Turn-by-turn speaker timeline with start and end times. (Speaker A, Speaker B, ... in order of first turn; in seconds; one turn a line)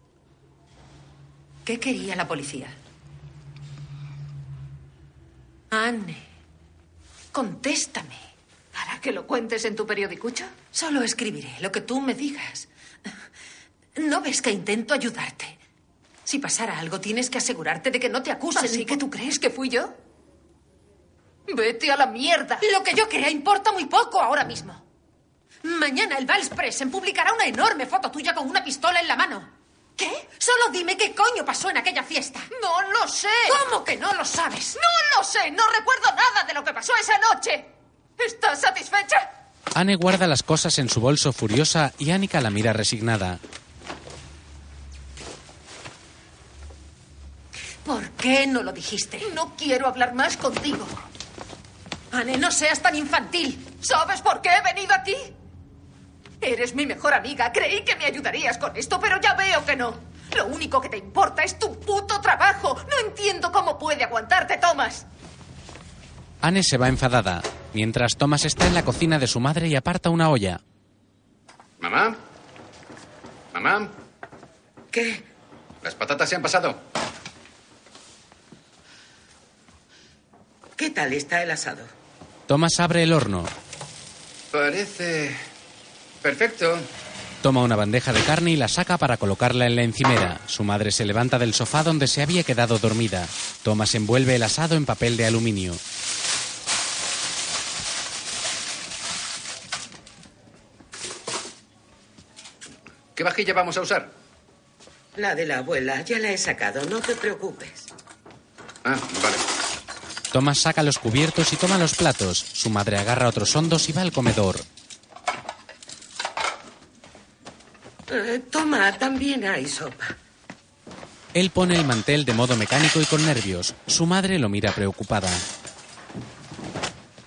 Speaker A: 1.6-2.8
Speaker A: 5.7-6.2
Speaker A: 7.3-8.2
Speaker B: 8.7-10.5
Speaker A: 10.7-12.7
Speaker A: 13.9-15.6
Speaker A: 16.2-19.0
Speaker B: 18.6-19.9
Speaker B: 21.5-22.6
Speaker A: 22.6-24.8
Speaker A: 25.6-29.5
Speaker A: 30.3-34.8
Speaker B: 32.6-33.6
Speaker B: 34.8-37.7
Speaker B: 38.2-39.2
Speaker C: 39.7-43.4
Speaker A: 47.8-49.3
Speaker B: 49.2-50.9
Speaker A: 52.1-53.6
Speaker B: 53.7-55.3
Speaker B: 56.4-65.0
Speaker C: 66.4-70.6
Speaker D: 71.8-72.2
Speaker D: 73.5-73.9
Speaker E: 74.9-75.2
Speaker D: 75.8-76.8
Speaker E: 80.8-81.9
Speaker C: 82.5-83.5
Speaker D: 84.5-85.4
Speaker D: 86.2-86.9
Speaker C: 87.4-95.8
Speaker D: 103.1-104.1
Speaker E: 105.1-107.9
Speaker D: 108.8-109.4
Speaker C: 110.3-114.6
Speaker E: 118.1-120.1
Speaker C: 121.3-125.4